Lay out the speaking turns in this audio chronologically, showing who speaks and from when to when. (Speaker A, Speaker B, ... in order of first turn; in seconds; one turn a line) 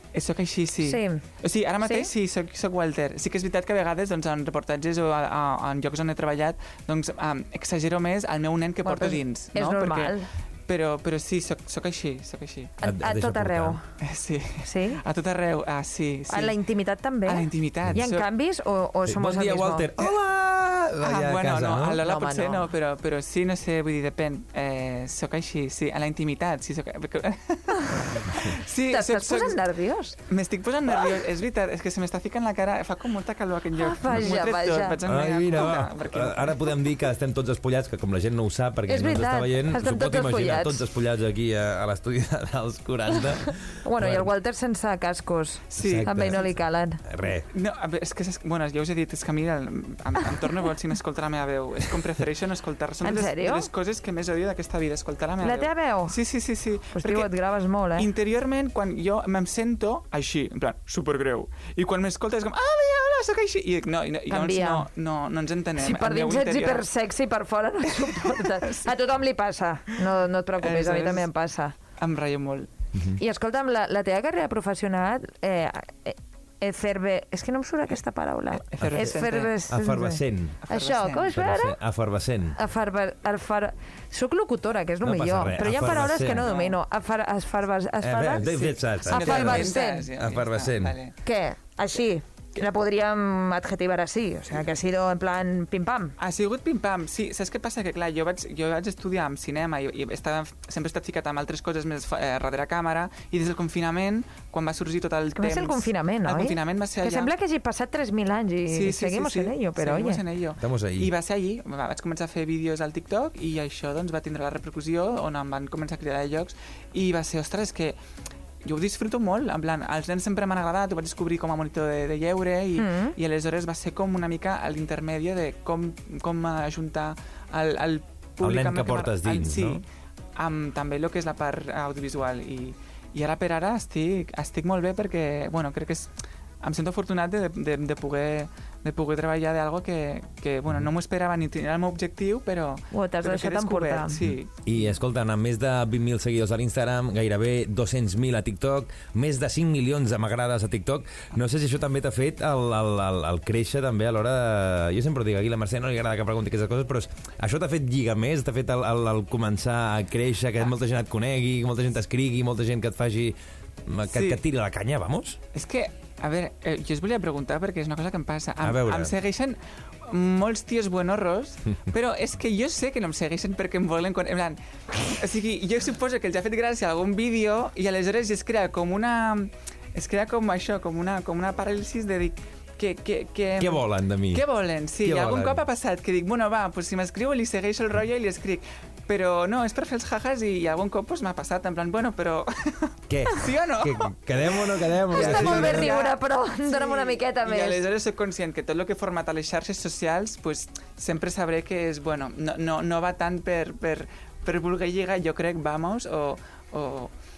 Speaker A: 0.1-12.7
Speaker B: 0.8-1.2
Speaker B: 1.8-2.1
Speaker B: 8.8-10.3
Speaker B: 12.8-13.8
Speaker C: 12.8-13.8
Speaker A: 14.0-16.6
Speaker B: 14.6-15.0
Speaker B: 16.3-19.9
Speaker A: 17.2-18.3
Speaker C: 19.1-22.0
Speaker A: 21.0-29.6
Speaker B: 22.0-22.7
Speaker B: 27.8-28.1
Speaker B: 28.9-30.2
Speaker A: 30.2-36.8
Speaker B: 33.8-35.0
Speaker C: 35.0-44.3
Speaker B: 38.9-40.8
Speaker B: 43.8-47.0
Speaker A: 45.7-46.4
Speaker C: 45.8-46.5
Speaker C: 47.0-47.5
Speaker A: 47.5-57.3
Speaker B: 53.0-53.7
Speaker B: 55.4-56.2
Speaker B: 56.9-58.1
Speaker A: 58.0-66.9
Speaker B: 64.3-64.9
Speaker B: 65.8-71.8
Speaker A: 67.9-68.9
Speaker A: 70.6-71.3
Speaker A: 72.0-72.7
Speaker B: 73.2-81.8
Speaker A: 78.6-79.5
Speaker C: 78.8-79.1
Speaker C: 79.7-80.6
Speaker A: 80.7-81.3
Speaker C: 81.3-82.6
Speaker B: 82.5-90.1
Speaker C: 85.0-86.5
Speaker A: 86.1-86.8
Speaker C: 88.0-91.0
Speaker A: 88.4-91.1
Speaker B: 91.2-96.2
Speaker A: 96.2-107.3
Speaker B: 105.4-110.2
Speaker A: 108.7-118.0
Speaker C: 110.6-111.1
Speaker A: 118.6-129.8
Speaker B: 122.8-123.1
Speaker C: 128.4-129.8
Speaker A: 130.4-136.1
Speaker A: 136.6-144.7
Speaker B: 142.9-144.2
Speaker C: 144.2-165.4
Speaker A: 164.1-164.4
Speaker A: 165.5-207.1
Speaker C: 168.6-169.1
Speaker C: 183.6-184.4
Speaker C: 185.0-185.6
Speaker C: 193.1-195.9
Speaker B: 195.1-197.8